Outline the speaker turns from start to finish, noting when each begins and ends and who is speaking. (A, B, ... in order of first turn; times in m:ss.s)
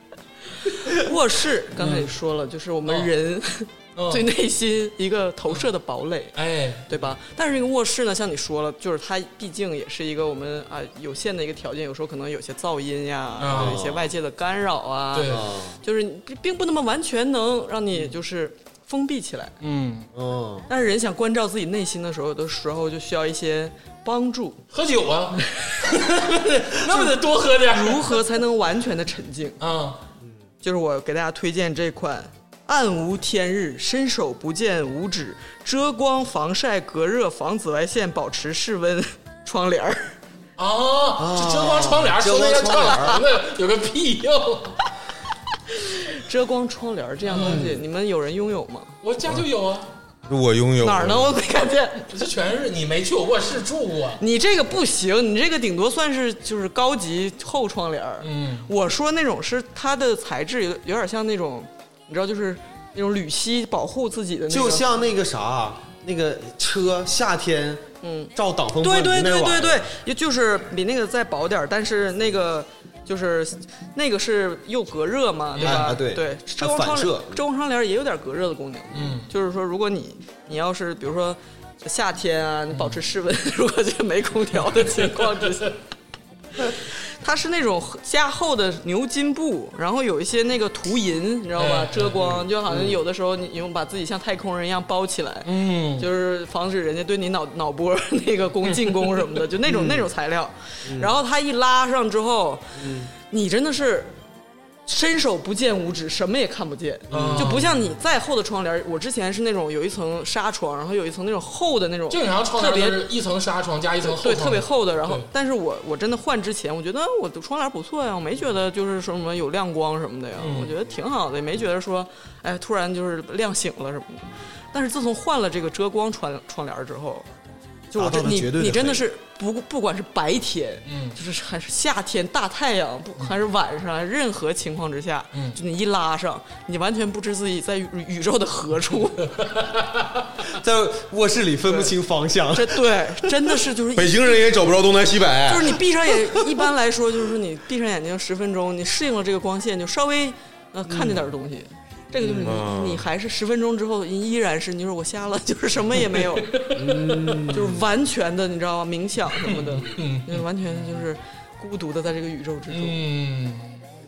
0:00.8-0:06.4 A
0:01.8-0:02.1 B
0:02.9-0:03.1 B
0:04.0-0:04.3 B
0:06.3-0:06.9 B
0:06.9-0:19.6 A
0:13.4-0:13.8 B
0:13.5-0:14.1 C
0:15.1-0:15.5 B
0:15.3-0:15.8 C
0:19.6-0:20.1 B
0:20.1-0:20.7 C
0:20.7-0:24.6 A
0:24.7-0:28.2 B
0:26.9-0:29.6 A
0:29.6-0:30.0 B
0:30.6-0:40.1 A
0:40.6-0:44.8 B
0:41.2-0:43.2 C
0:45.7-0:48.9 A
0:47.3-0:47.6 B
0:47.4-0:47.8 C
0:49.0-0:49.9 B
0:50.3-0:51.4 D
0:50.8-0:52.2 A
0:52.1-0:54.2 B
0:54.2-1:04.9 A
0:58.2-0:58.7 B
1:04.5-1:09.8 C
1:08.0-1:25.8 A
1:15.5-1:16.0 B
1:15.6-1:17.4 C
1:18.9-1:19.3 B
1:22.7-1:23.0 B
1:24.6-1:25.7 B
1:26.7-1:44.1 A
1:31.6-1:32.4 B
1:32.7-1:33.0 C
1:35.4-1:36.1 B
1:39.6-1:40.1 C
1:40.8-1:41.1 C
1:42.8-1:43.1 C
1:44.9-1:53.1 A
1:47.1-1:47.7 B
1:47.1-1:47.7 C
1:52.1-1:55.3 B
1:54.0-2:07.3 A
2:00.4-2:00.7 B
2:07.9-2:19.3 A
2:08.0-2:09.0 C
2:10.9-2:11.2 B
2:19.3-2:20.2 B
2:20.5-2:23.6 C
2:21.7-2:21.9 A
2:22.5-2:24.6 A
2:24.0-2:25.8 D
2:25.5-2:36.7 A
2:30.9-2:31.2 C
2:32.2-2:32.6 C
2:32.4-2:33.0 D
2:36.1-2:37.5 B
2:36.7-2:37.8 C
2:37.5-2:43.0 A
2:39.4-2:41.0 B
2:42.7-2:43.8 B